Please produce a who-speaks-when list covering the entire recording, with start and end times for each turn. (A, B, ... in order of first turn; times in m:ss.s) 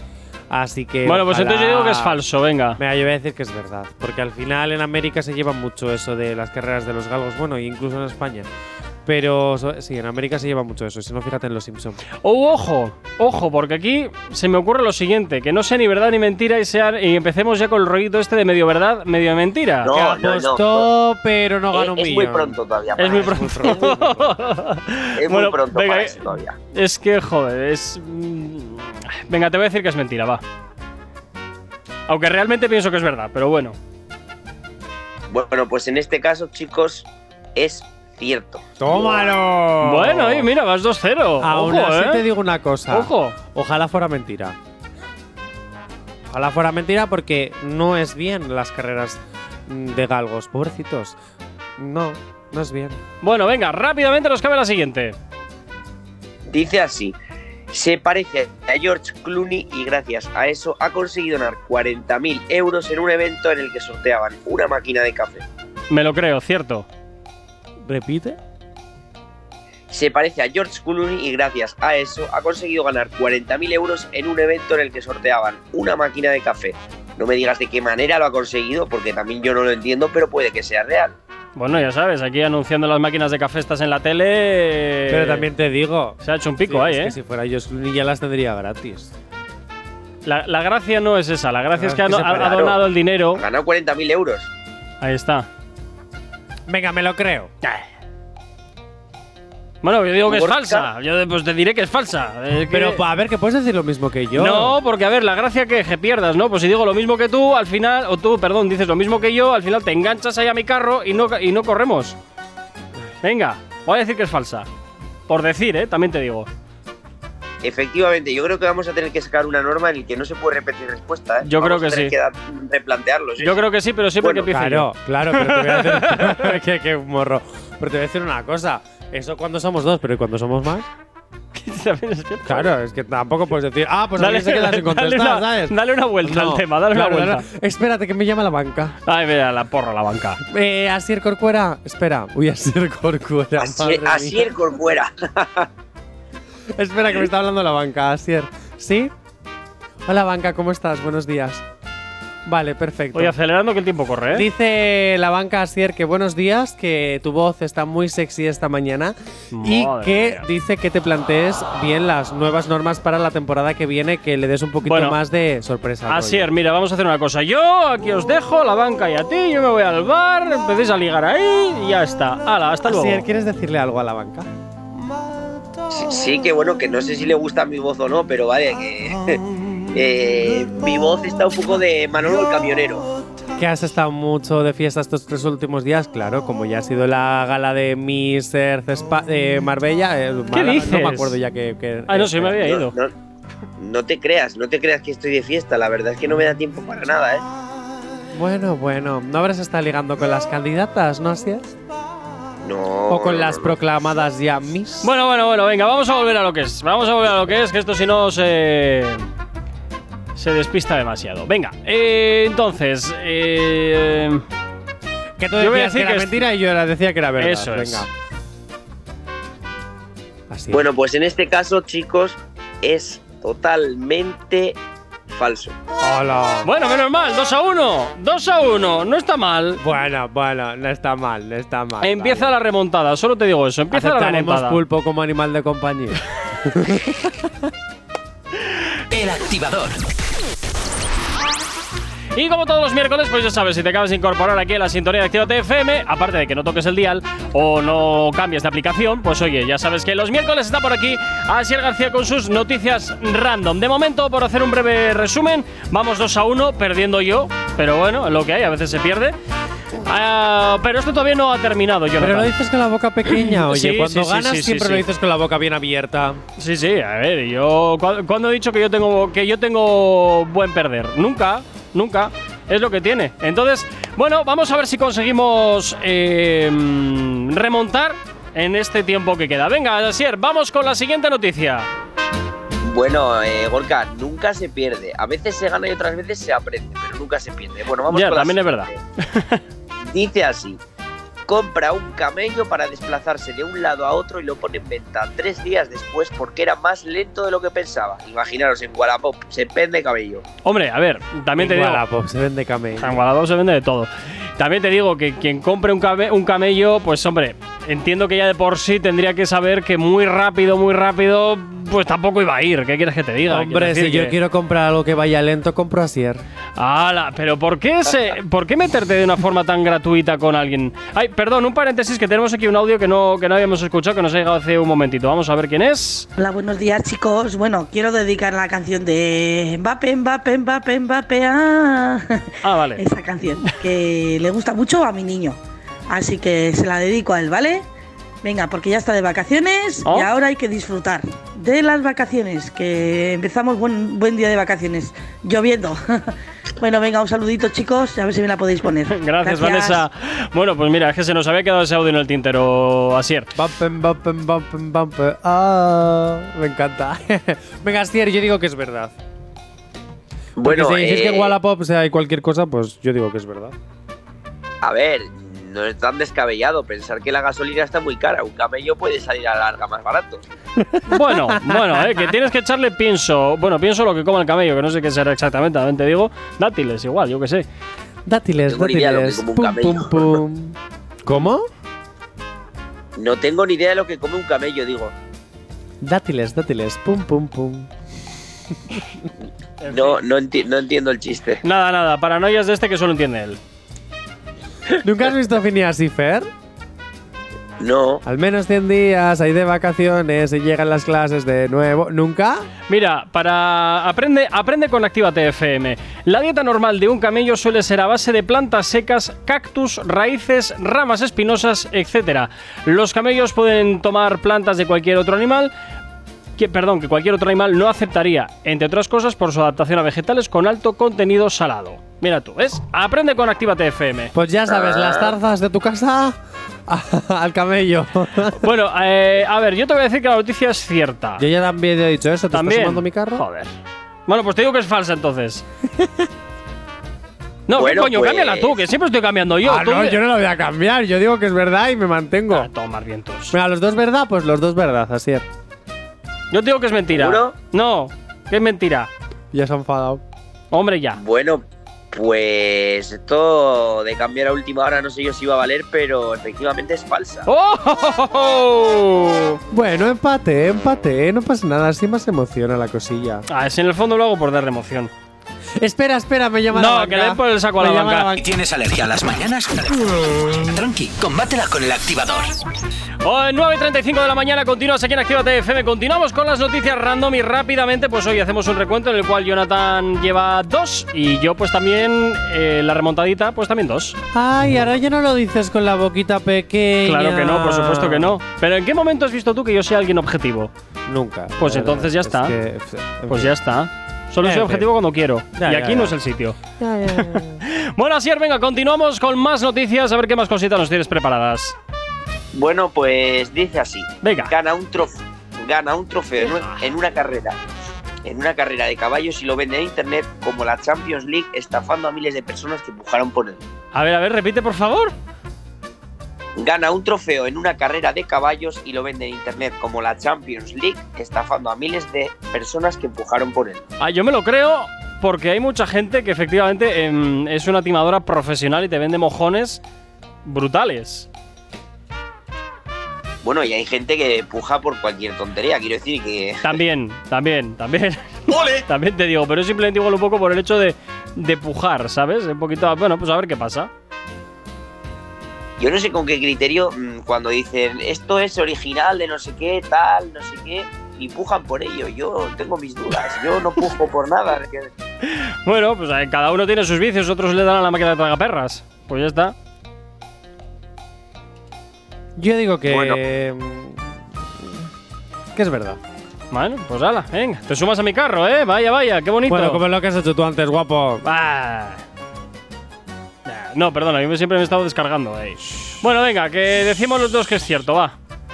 0:00.5-0:02.2 A
0:01.0-0:02.8 B
0:02.8-0:08.5 A
0:09.0-0:12.0 A
0:12.2-0:19.9 B
0:19.8-0:20.9 C
0:19.9-0:24.3 A
0:21.7-0:24.0 C
0:23.0-0:30.4 B
0:25.2-0:26.6 C
0:32.1-0:33.8 B
0:35.3-0:39.3 C
0:38.8-0:40.5 A
0:39.8-0:42.2 B
0:41.4-0:44.6 A
0:42.9-0:43.4 B
0:46.3-0:51.2 A
0:51.8-0:53.0 A
0:53.2-0:55.2 B
0:56.5-0:57.2 C
0:57.7-1:05.4 C
1:05.9-1:06.9 B
1:07.8-1:08.4 A
1:09.9-1:21.1 C
1:21.6-1:25.5 B
1:25.1-1:29.1 A
1:26.2-1:27.2 B
1:30.2-1:33.4 B
1:31.8-1:32.6 A
1:32.4-1:34.5 C
1:35.0-1:35.5 B
1:36.7-1:37.5 A
1:39.8-1:43.0 B
1:40.2-1:40.9 C
1:42.7-1:44.8 A
1:44.4-1:52.2 B
1:53.2-1:54.7 B
1:55.3-1:56.5 B
1:57.6-2:03.6 C
2:01.4-2:02.1 B
2:03.4-2:06.6 B
2:04.2-2:04.4 C
2:04.5-2:10.9 A
2:11.5-2:12.7 B
2:12.4-2:19.0 A
2:14.2-2:17.4 B
2:19.0-2:20.4 B
2:20.4-2:24.5 A
2:23.6-2:25.7 C
2:26.8-2:29.1 A
2:30.0-2:31.6 A
2:32.4-2:33.4 A
2:33.1-2:34.5 B
2:34.3-2:46.5 A
2:39.5-2:40.4 B
2:44.8-2:45.2 B
2:46.1-2:53.2 B
2:52.8-2:54.5 A
2:55.9-3:03.1 C
3:03.6-3:12.7 A
3:10.5-3:11.4 B
3:12.1-3:13.0 B
3:12.6-3:13.1 C
3:13.8-3:17.4 C
3:18.3-3:21.7 A
3:22.6-3:23.7 C
3:23.1-3:25.1 A
3:25.0-3:29.2 B
3:30.4-3:34.4 B
3:35.4-3:38.1 A
3:35.6-3:36.5 B
3:37.4-3:38.1 B
3:40.5-3:40.9 A
3:40.7-3:45.8 C
3:46.0-3:46.7 A
3:46.6-3:49.8 B
3:49.8-3:52.5 A
3:52.0-3:54.8 B
3:53.9-3:57.5 A
3:59.1-4:00.0 D
4:02.4-4:19.4 B
4:20.0-4:22.5 B
4:22.2-4:26.4 A
4:23.3-4:25.0 B
4:26.6-4:41.9 B
4:42.8-4:49.0 C
4:48.1-4:49.6 B
4:50.1-4:50.8 C
4:51.5-5:00.4 C
5:00.6-5:02.0 B
5:01.6-5:03.2 A
5:03.0-5:14.4 B
5:13.5-5:16.4 A
5:16.8-5:26.3 B
5:26.4-5:32.4 E
5:32.6-5:33.0 B
5:33.0-5:35.6 E
5:36.1-5:37.9 E
5:38.4-5:50.0 E
5:40.0-5:40.3 B
5:49.1-5:53.5 B
5:53.5-5:59.2 A
6:00.6-6:01.6 C
6:00.6-6:03.7 A
6:04.8-6:10.4 C
6:10.8-6:12.2 A
6:11.1-6:17.6 B
6:18.2-6:21.7 A
6:18.7-6:20.4 C
6:23.2-6:25.1 C
6:26.0-6:27.9 A
6:29.8-6:30.2 B
6:29.8-6:31.6 C
6:31.6-6:33.6 B
6:35.0-6:36.5 A
6:37.8-6:38.2 C
6:38.2-6:42.6 A
6:42.9-6:55.7 B
6:56.6-7:04.3 B
7:04.3-7:08.6 A
7:04.7-7:05.4 C
7:08.6-7:11.4 B
7:11.4-7:13.4 A
7:12.5-7:13.7 B
7:14.3-7:15.6 B
7:15.9-7:16.3 A
7:17.7-7:20.2 B
7:17.7-7:18.8 C
7:19.6-7:22.7 A
7:22.5-7:23.6 B
7:23.5-7:25.4 A
7:26.5-7:29.1 B
7:27.1-7:27.5 C
7:29.5-7:30.2 A
7:30.7-7:31.2 B
7:31.1-7:37.5 C
7:37.5-7:39.6 B
7:39.7-7:43.4 A
7:43.5-7:45.1 B
7:45.8-7:48.4 A
7:46.7-7:48.3 B
7:48.4-7:52.6 D
7:53.2-8:04.2 B
8:04.3-8:08.4 A
8:07.0-8:10.7 B
8:11.1-8:13.6 A
8:11.6-8:12.5 B
8:13.3-8:16.6 B
8:14.4-8:14.9 A
8:15.5-8:16.2 A
8:16.8-8:17.6 A
8:17.1-8:21.7 B
8:22.5-8:27.6 C
8:24.2-8:24.5 B
8:28.2-8:33.6 C
8:33.9-8:35.1 B
8:36.6-8:43.8 C
8:44.0-8:49.8 B
8:50.4-8:51.3 B
8:53.4-8:56.8 C
8:56.6-9:03.9 B
9:05.8-9:14.9 C
9:15.2-9:19.5 B
9:22.4-9:24.9 A
9:22.9-9:23.2 C
9:25.5-9:26.0 A
9:26.5-9:29.8 B
9:29.5-9:31.2 A
9:31.2-9:32.0 B
9:33.4-9:38.2 B